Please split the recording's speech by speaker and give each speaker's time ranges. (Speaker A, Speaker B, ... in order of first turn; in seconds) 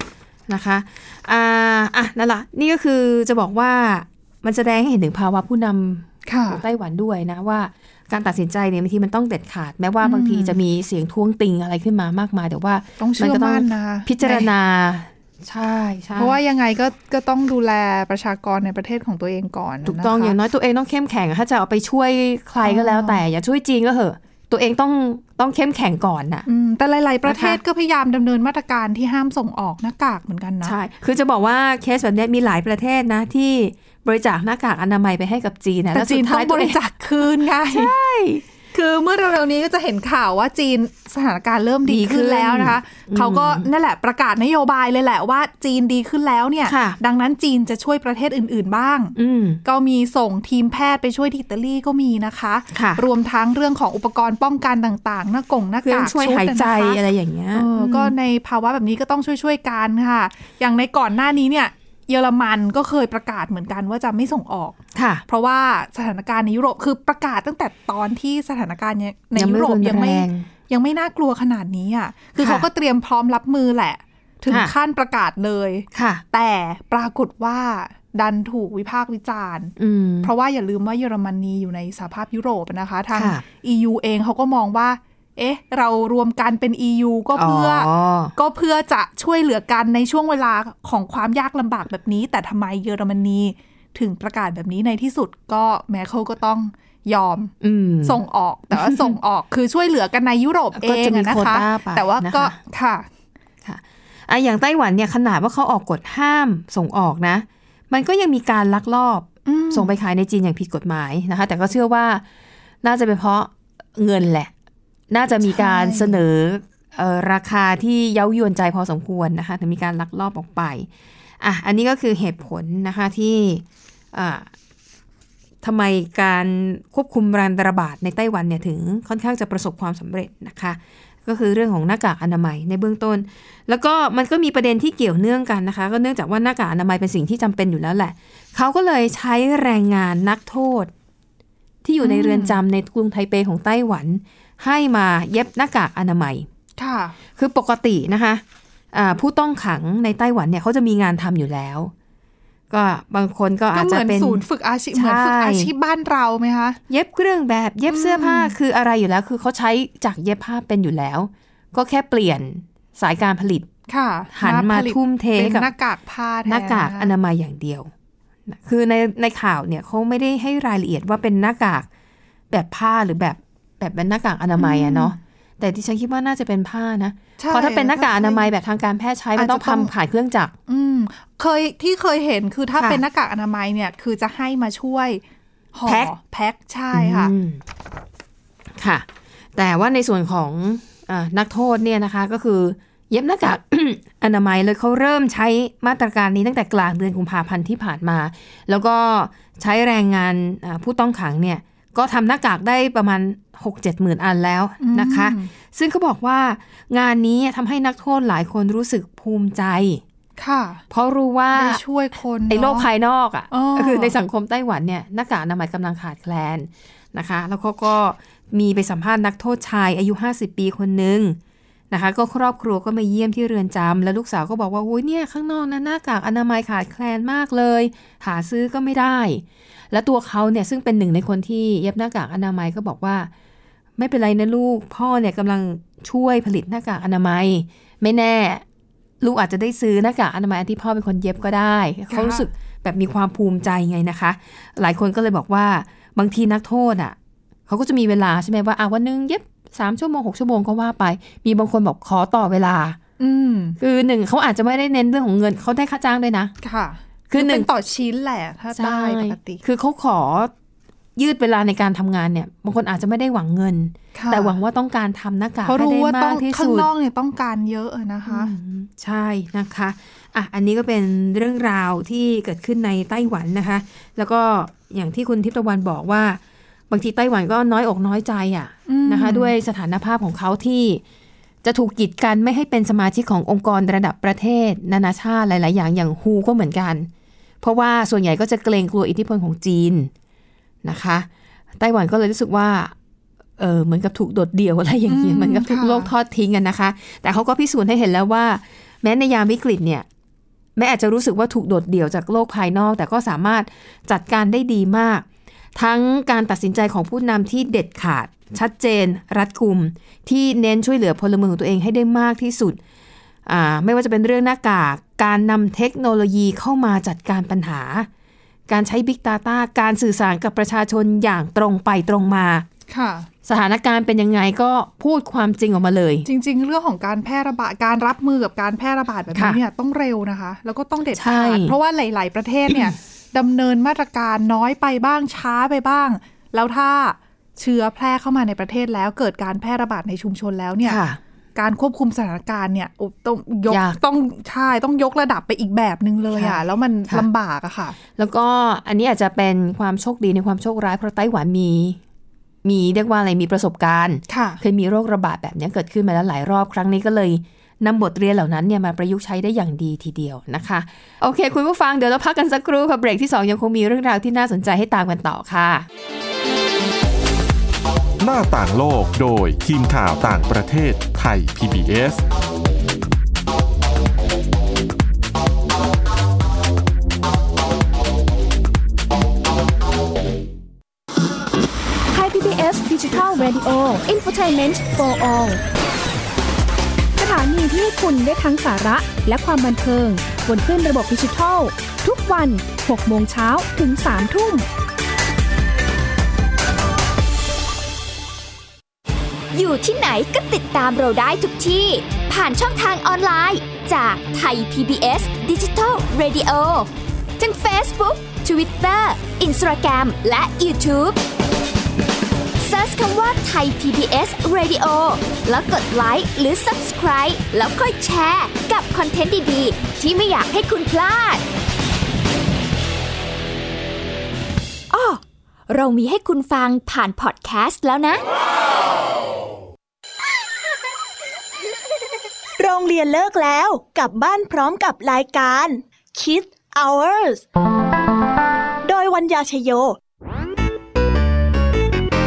Speaker A: 0.5-16.4, 19.9-26.4, 27.2-27.6, 30.6-36.8, 37.6-38.4, 41.9-43.7, 46.6-47.0, 49.1-49.6, 52.7-53.0, 55.8-58.1, 64.9-65.2, 69.3-70.5, 72.4-72.7, 74.5-74.7, 75.9-76.2, 79.8-80.3, 83.1-83.4, 87.3-88.3, 97.6-98.2, 98.7-99.2, 100.7-102.6, 103.6-112.2, 112.8-114.5, 115.1-120.9, 121.4-124.5, 125.6-140.9, 141.8-146.5, 147.3-151.9, 152.7-155.7, 156.9-163.7, 164.3-165.7, 166.4-167.9, 168.5-171.9, 172.5-180.5, 182.8-183.0, 185.8-186.1, 186.9-187.6, 188.7-210.0, 210.9-211.8, 212.5-221.4, 221.9-233.3, 234.0-238.6, 239.2-247.2, 247.7-253.0, 253.8-256.5, 257.3-257.7, 258.7-260.5, 261.1-266.9, 268.3-281.0, 281.6-287.1, 287.6-290.1, 290.8-292.9, 293.6-300.1, 300.8-312.8, 313.4-318.1, 318.7-322.6, 323.4-326.2, 329.3-329.6, 331.1-331.7, 332.7-332.9, 340.8-341.2, 343.7-344.0, 346.3-347.3, 348.1-352.0, 352.6-365.9
Speaker B: 6.2-6.6, 10.0-10.6, 13.0-14.5, 16.1-20.4, 22.6-23.2, 26.5-30.8, 35.9-37.9, 38.7-57.0, 57.5-97.5, 98.0-103.1, 109.5-109.9, 115.4-116.2, 142.0-142.6, 146.8-147.2, 153.7-156.8, 157.9-158.5, 163.9-167.1, 174.6-175.1, 177.4-178.5, 179.3-179.9, 180.7-185.2, 185.7-187.3, 204.8-205.5, 210.4-210.8, 211.5-212.9, 213.5-214.1, 242.1-242.4, 253.2-253.8, 256.6-259.6, 264.1-264.6, 265.6-268.5, 278.9-279.5, 295.1-296.1, 322.9-323.3, 326.2-341.0, 341.5-348.0, 354.3-354.6
Speaker C: 368.2-372.2
Speaker D: 382.1-385.6, 387.2-394.6
Speaker E: 399.5-411.2, 412.6-421.4, 424.9-428.2
Speaker F: 432.6-437.4, 438.8-440.0